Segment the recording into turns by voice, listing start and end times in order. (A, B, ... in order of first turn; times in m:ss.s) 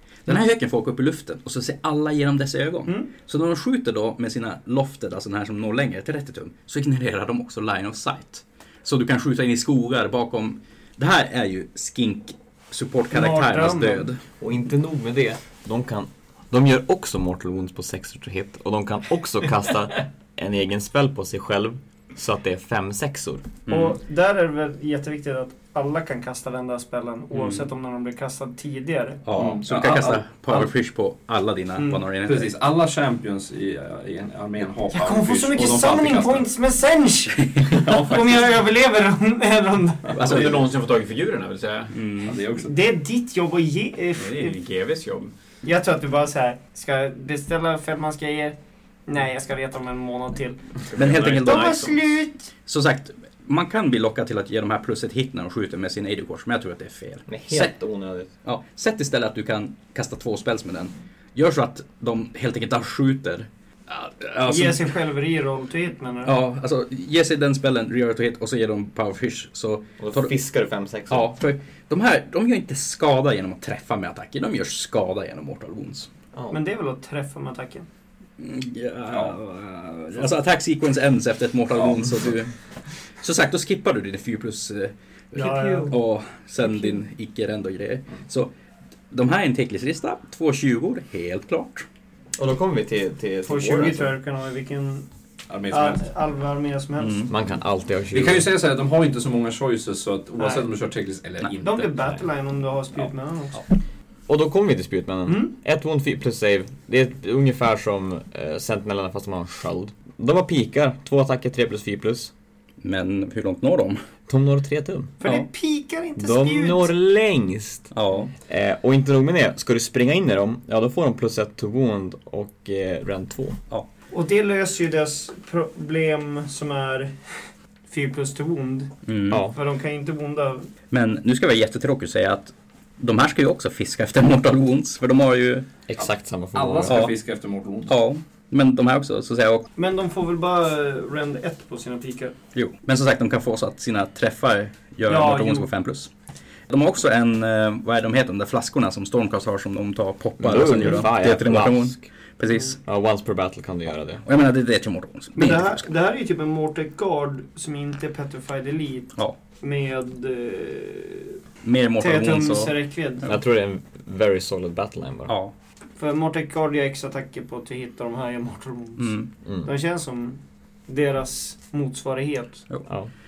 0:00.2-0:14.2 A
0:13.1-0:14.1 B
0:14.4-0:23.5 C
0:23.7-0:24.0 A
0:23.7-0:29.2 B
0:27.3-0:27.7 A
0:29.2-0:32.5 A
0:29.3-0:30.7 D
0:32.2-0:36.5 D
0:34.9-0:40.4 B
0:37.8-0:38.3 D
0:40.2-0:40.6 A
0:40.2-0:41.9 E
0:41.9-0:42.4 A
0:42.2-0:42.8 D
0:42.6-0:44.6 B
0:44.2-0:45.3 E
0:45.6-0:48.6 B
0:49.1-0:50.6 B
0:50.9-0:52.0 E
0:51.0-0:51.8 A
0:51.4-0:52.5 B
0:52.7-0:57.7 A
0:57.3-0:58.3 C
0:58.4-1:04.9 A
1:04.4-1:06.4 B
1:06.2-1:10.3 A
1:10.0-1:11.3 C
1:11.1-1:16.1 A
1:16.5-1:17.9 B
1:18.4-1:22.5 A
1:23.2-1:28.5 A
1:25.3-1:26.0 B
1:29.1-1:31.8 A
1:32.4-1:34.1 C
1:33.4-1:35.1 B
1:35.5-1:36.0 D
1:35.7-1:37.3 B
1:37.0-1:37.3 A
1:37.3-1:38.5 C
1:38.1-1:42.1 D
1:40.4-1:40.7 B
1:41.6-1:43.6 B
1:44.3-1:52.3 C
1:45.3-1:45.5 B
1:52.8-1:54.0 A
1:54.3-1:55.2 C
1:55.2-1:56.9 B
1:56.2-1:57.9 C
1:57.9-1:58.3 A
1:58.5-2:03.6 C
2:04.1-2:07.3 B
2:07.9-2:10.7 B
2:09.0-2:09.5 A
2:09.3-2:09.6 C
2:10.9-2:15.7 A
2:15.9-2:17.1 C
2:16.0-2:18.0 D
2:16.9-2:17.2 A
2:17.9-2:19.7 A
2:19.8-2:22.3 B
2:22.5-2:26.1 A
2:25.0-2:25.7 B
2:26.7-2:32.8 A
2:30.4-2:32.0 C
2:32.8-2:34.2 C
2:34.2-2:35.9 A
2:35.4-2:41.4 B
2:41.6-2:42.8 A
2:42.0-2:43.3 B
2:43.2-2:45.3 C
2:45.3-2:45.5 A
2:46.0-2:52.6 B
2:49.0-2:49.3 A